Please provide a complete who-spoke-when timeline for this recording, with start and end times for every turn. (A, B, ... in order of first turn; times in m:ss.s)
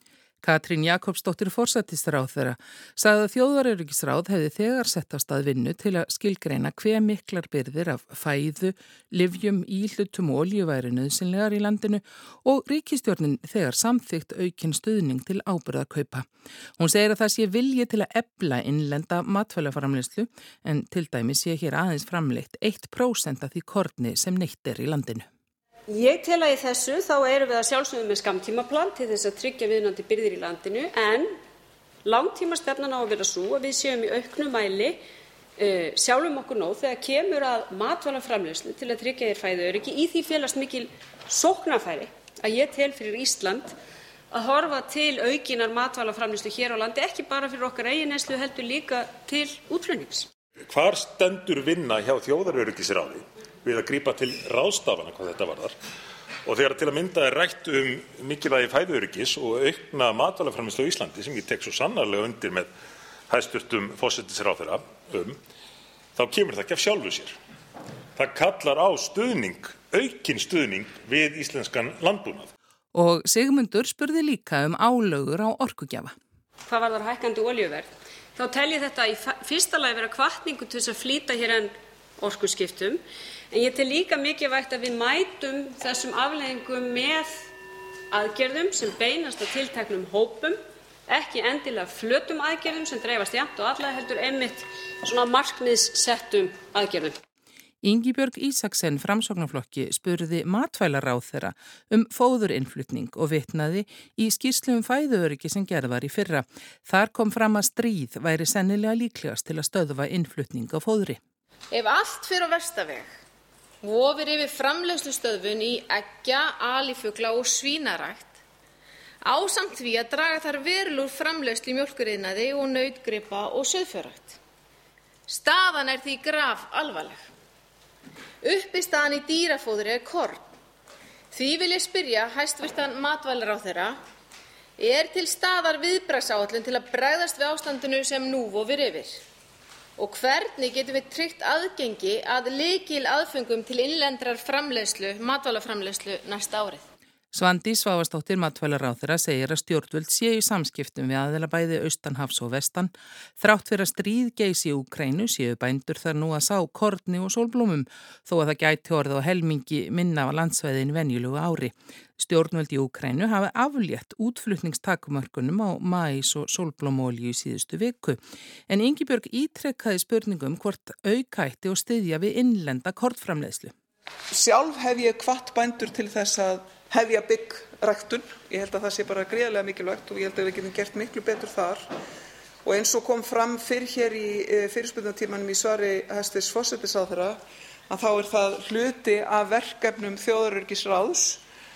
0:00.4-0:25.3 A
0:25.9-0:31.3 B
0:32.0-0:35.0 B
0:35.6-0:43.8 B
0:44.3-0:50.3 B
0:50.7-0:55.8 C
0:56.4-1:02.7 C
1:03.3-1:05.4 C
1:06.2-1:07.4 C
1:08.1-1:12.5 C
1:12.9-1:16.1 A
1:16.7-1:27.4 B
1:28.1-1:37.2 B
1:37.8-1:51.2 A
1:51.7-1:53.2 D
1:53.8-1:58.4 D
1:59.2-2:04.4 D
2:05.3-2:07.3 D
2:08.4-2:10.5 D
2:11.3-2:14.0 D
2:14.8-2:19.2 D
2:20.0-2:26.8 D
2:27.3-2:53.7 A
2:54.3-3:01.9 E
3:02.6-3:11.4 E